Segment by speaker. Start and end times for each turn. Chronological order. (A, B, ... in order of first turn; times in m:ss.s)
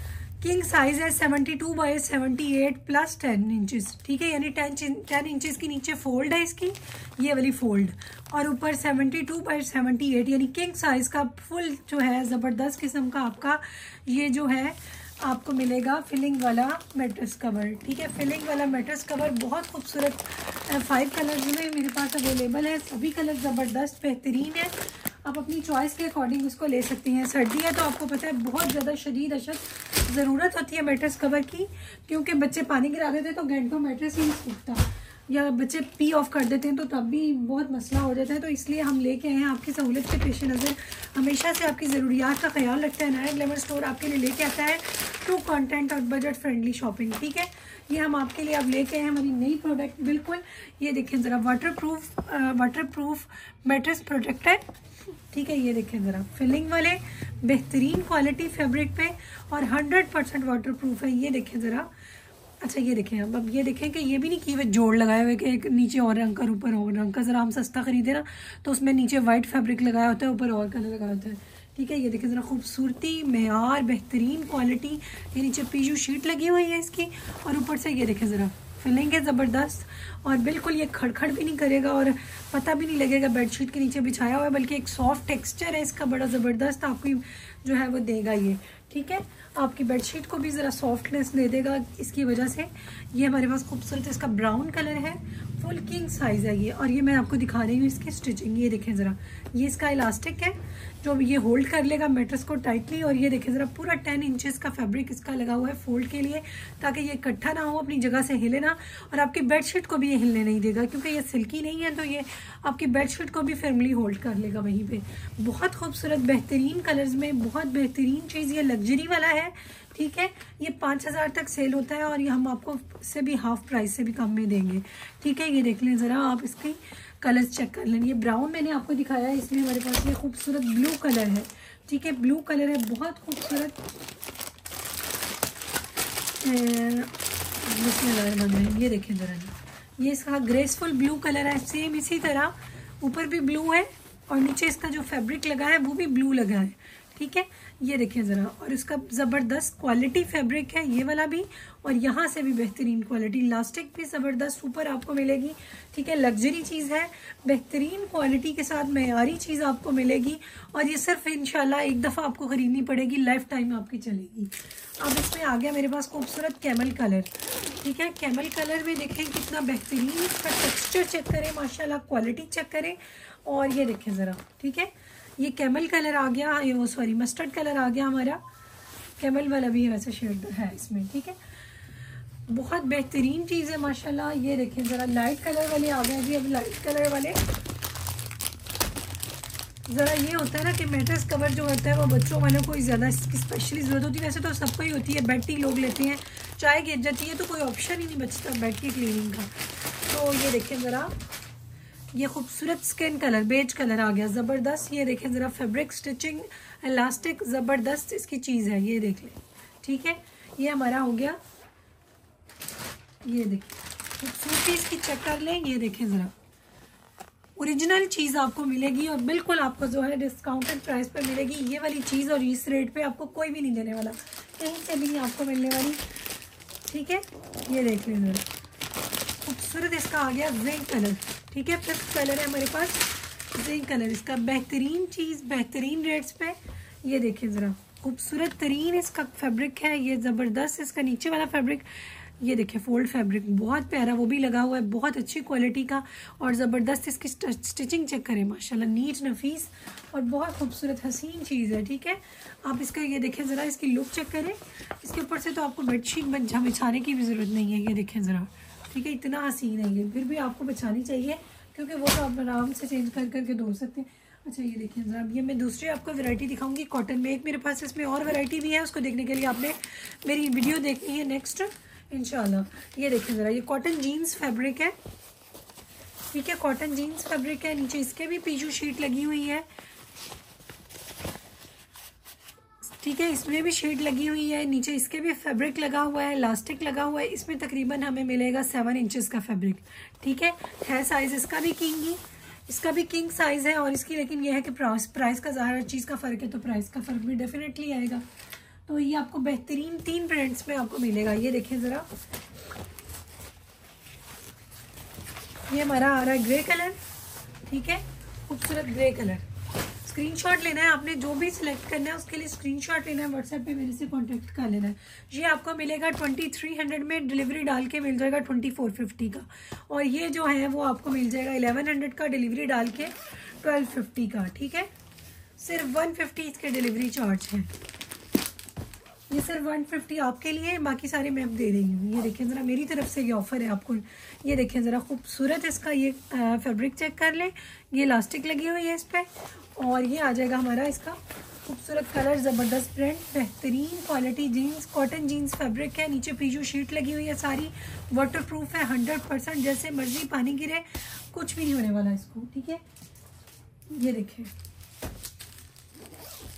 0:00.4-0:54.6 A
0:55.3-1:01.9 A
1:02.6-2:13.8 A
2:16.4-2:58.4 A
2:59.2-3:01.4 A
3:02.5-3:07.4 A
3:09.9-3:21.1 A
3:22.1-3:31.4 A
3:33.2-3:36.3 A
3:37.6-3:46.0 A
3:46.9-3:48.4 A
3:49.4-4:34.9 A
4:36.3-4:39.6 A
4:42.8-4:58.2 A
4:58.9-5:02.1 A
5:05.7-5:07.0 A
5:07.6-5:09.4 A
5:10.0-5:24.9 A
5:25.6-5:27.7 A
5:29.3-5:52.8 A
5:53.9-5:54.5 A